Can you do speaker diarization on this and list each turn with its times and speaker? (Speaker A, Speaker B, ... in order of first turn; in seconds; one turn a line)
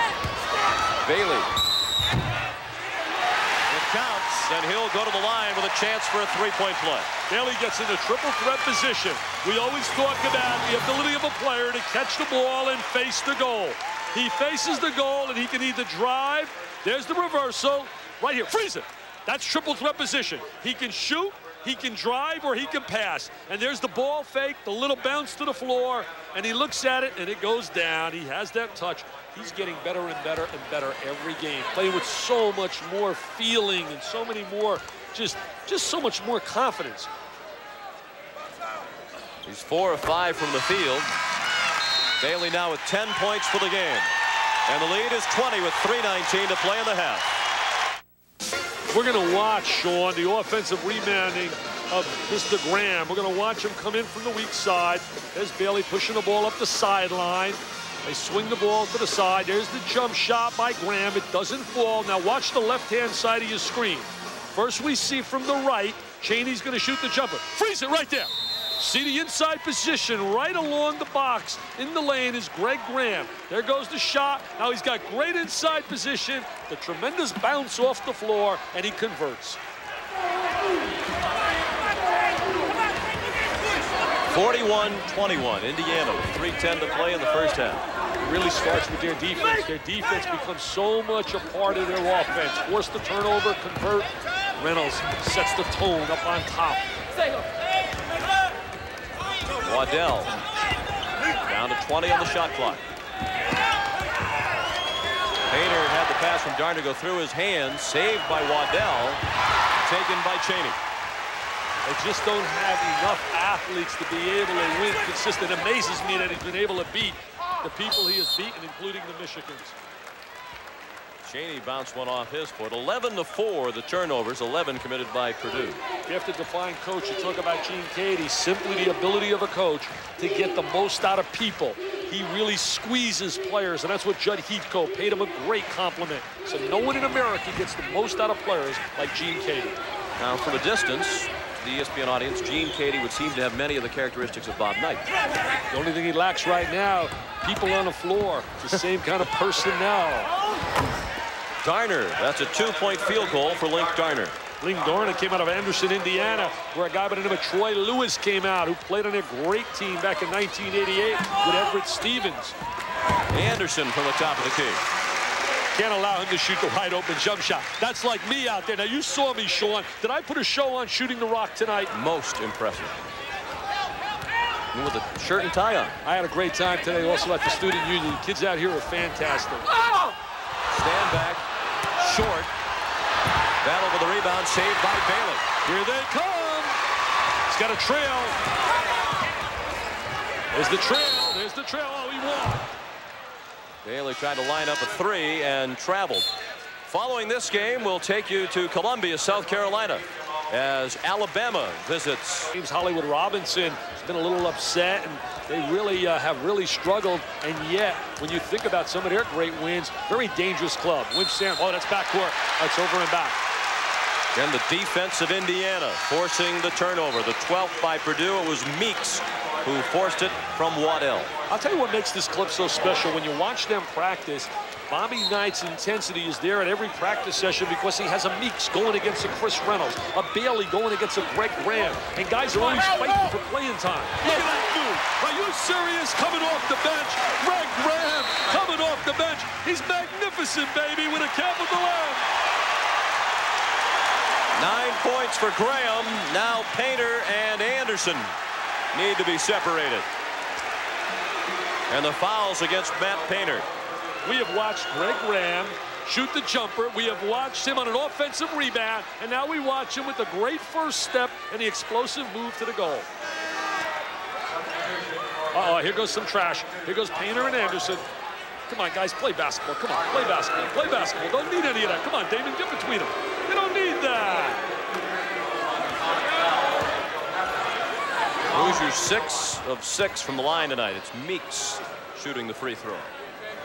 Speaker A: 1.0-1.5
Speaker A: 3.7-7.1
Speaker B: 7.3-37.1
Speaker A: 39.4-41.1
Speaker A: 42.2-44.1
Speaker A: 44.7-47.3
Speaker B: 48.9-79.6
Speaker A: 84.3-87.8
Speaker B: 88.2-96.8
Speaker A: 99.6-100.4
Speaker A: 101.4-102.8
Speaker A: 105.5-109.2
Speaker A: 109.7-110.8
Speaker B: 111.8-119.8
Speaker A: 121.2-125.8
Speaker B: 126.1-139.8
Speaker A: 140.2-145.0
Speaker B: 145.7-150.3
Speaker A: 151.6-154.3
Speaker B: 154.6-162.6
Speaker A: 163.3-164.8
Speaker B: 165.7-171.9
Speaker A: 171.9-172.9
Speaker A: 174.7-176.0
Speaker B: 176.0-179.7
Speaker A: 180.7-181.4
Speaker A: 182.0-182.5
Speaker A: 183.6-185.4
Speaker B: 185.6-186.7
Speaker B: 187.5-188.3
Speaker B: 190.5-192.6
Speaker A: 193.8-196.3
Speaker A: 196.9-202.5
Speaker B: 202.5-213.4
Speaker A: 214.3-221.3
Speaker B: 221.5-242.2
Speaker A: 244.5-248.3
Speaker A: 248.9-250.1
Speaker A: 251.9-253.7
Speaker B: 254.2-263.1
Speaker B: 265.5-268.0
Speaker B: 268.7-274.6
Speaker A: 278.5-283.1